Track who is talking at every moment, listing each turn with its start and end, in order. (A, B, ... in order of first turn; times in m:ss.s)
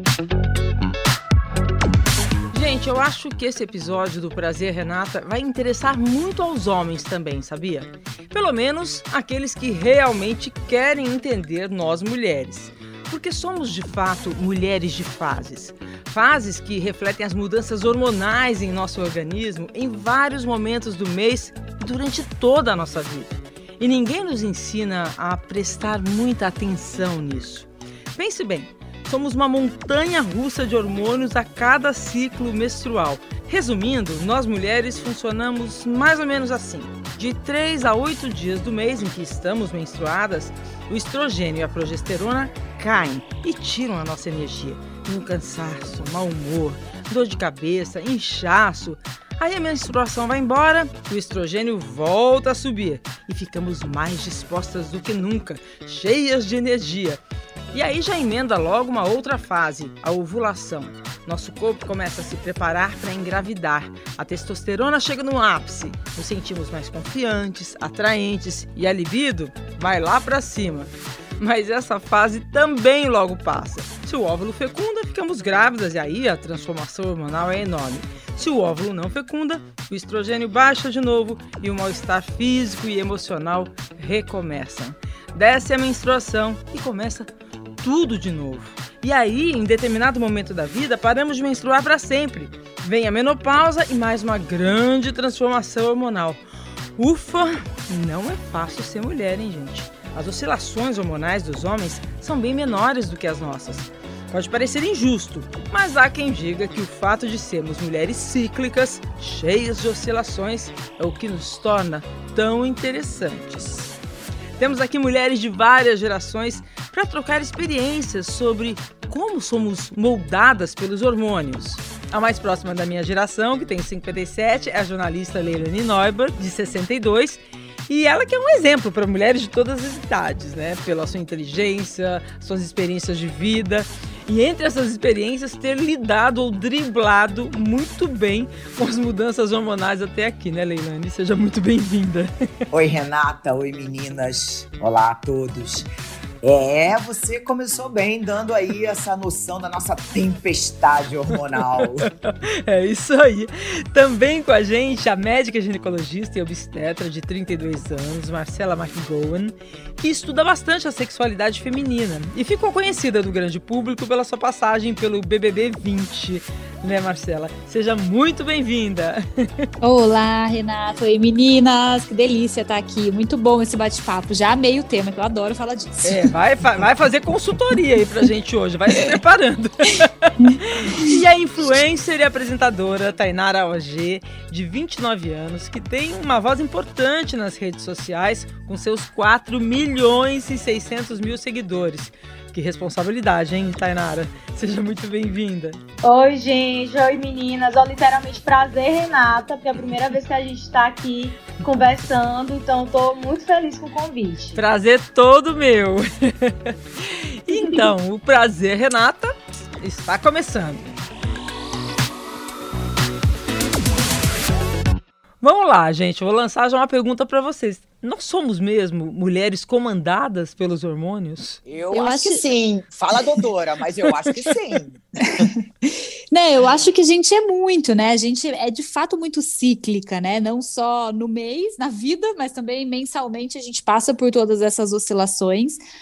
0:02.5-0:57.2 A
0:57.7-1:27.3 A
1:27.8-1:36.4 A
1:37.0-1:53.9 A
1:54.6-2:22.3 A
2:22.7-2:25.9 B
2:26.4-2:32.1 B
2:31.8-2:49.7 A
2:49.8-2:56.3 C
2:56.0-2:56.9 B
2:56.3-3:15.8 A
3:16.0-3:24.6 D
3:24.6-3:31.0 A
3:35.4-3:41.6 A
3:41.7-3:45.5 B
3:41.9-3:42.4 C
3:46.3-3:55.8 C